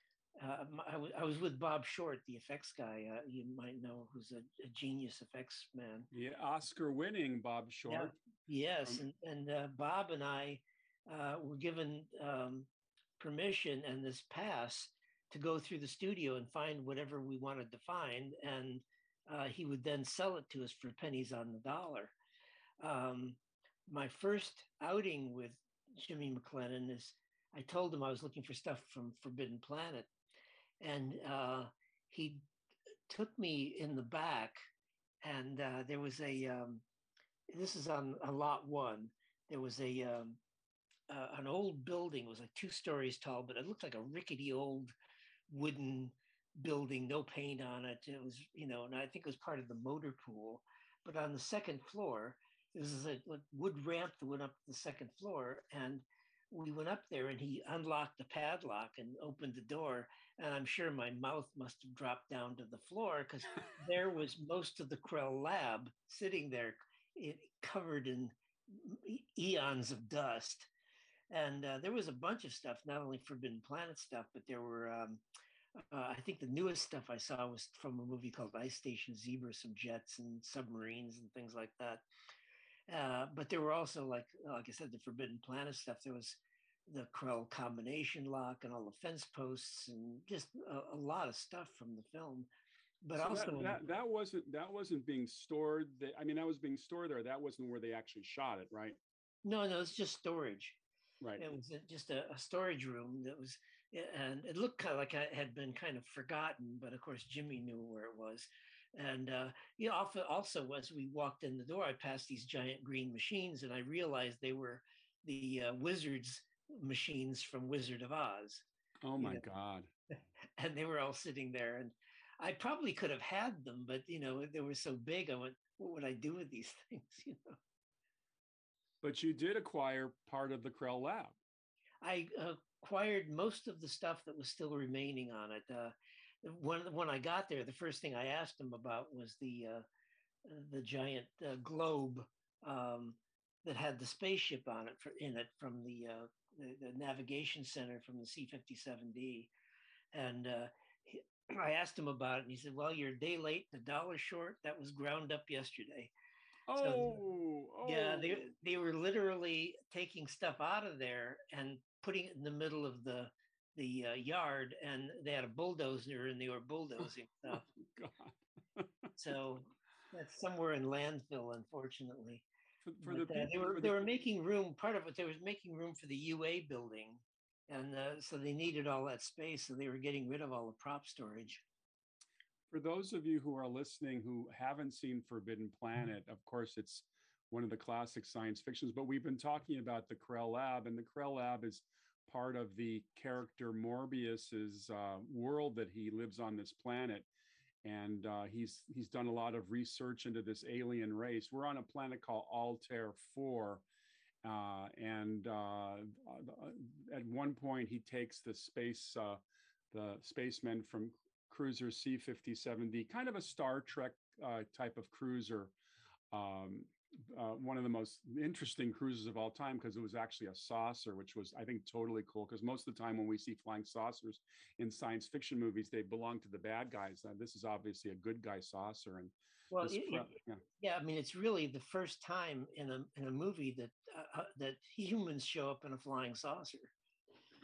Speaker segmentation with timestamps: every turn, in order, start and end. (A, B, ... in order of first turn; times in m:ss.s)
0:00.4-0:06.1 A
0:06.1-0:08.2 B
0:07.9-0:22.1 A
0:22.8-0:30.1 A
0:30.8-0:32.4 A
0:33.1-0:34.6 A
0:35.2-0:36.8 A
0:37.5-0:40.4 A
0:41.1-0:44.9 A
0:45.5-1:10.7 A
1:11.3-1:15.2 A
1:15.8-1:22.0 A
1:22.9-1:32.5 A
1:33.0-1:33.8 A
1:33.2-1:39.0 B
1:39.4-1:40.8 A
1:41.2-1:41.5 B
1:41.4-1:58.6 A
1:59.0-1:59.9 B
1:59.2-1:59.4 A
2:00.6-2:07.6 A
2:09.0-2:11.4 B
2:12.0-2:19.8 A
2:20.4-2:29.5 A
2:30.1-2:36.1 A
2:36.7-2:38.4 B
2:36.8-2:37.2 A
2:37.8-2:47.6 A
2:47.8-2:48.9 B
2:49.2-2:52.4 A
2:52.8-2:54.0 B
2:53.0-3:01.6 A
3:02.7-3:17.3 B
3:17.8-3:23.8 B
3:24.4-3:29.4 B
3:29.9-3:35.7 B
3:36.3-3:50.6 B
3:49.7-3:56.9 A